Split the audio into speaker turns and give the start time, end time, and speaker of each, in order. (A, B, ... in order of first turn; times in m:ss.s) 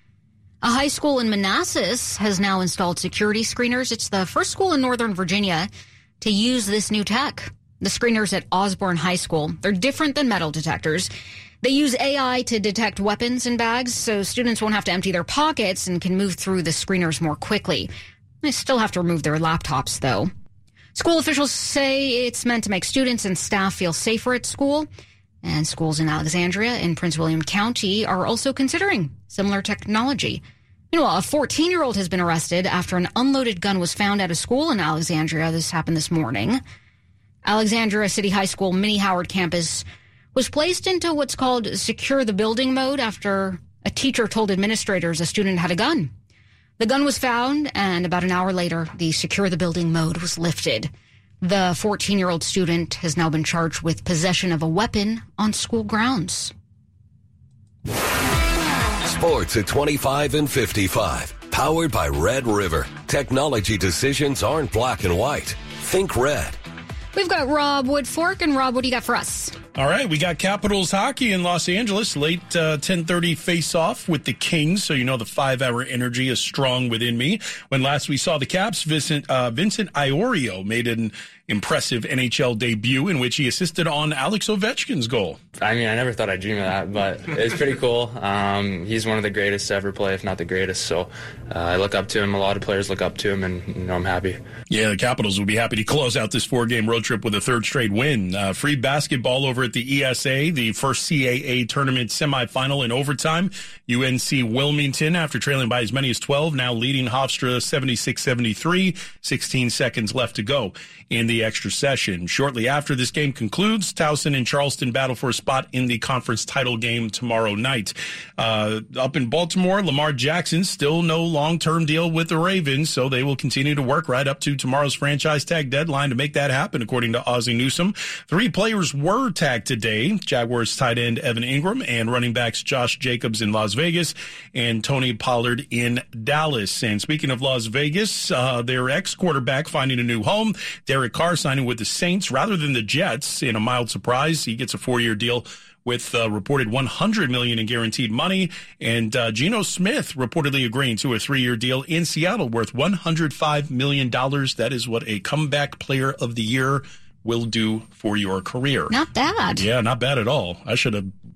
0:00.6-0:05.7 A
0:06.2-0:11.1 A
0:11.6-0:17.9 A
0:18.4-0:20.3 A
0:20.9-0:24.9 A
0:25.4-0:30.4 A
0:30.9-0:36.6 A
0:37.4-0:39.8 A
0:40.3-0:46.1 A
0:46.8-0:50.9 A
0:51.4-0:56.5 A
0:59.0-1:06.6 B
1:07.1-1:09.6 A
1:09.8-1:25.4 C
1:25.6-1:34.4 D
1:34.7-2:38.9 C
2:38.9-2:39.6 A
2:39.6-2:41.1 C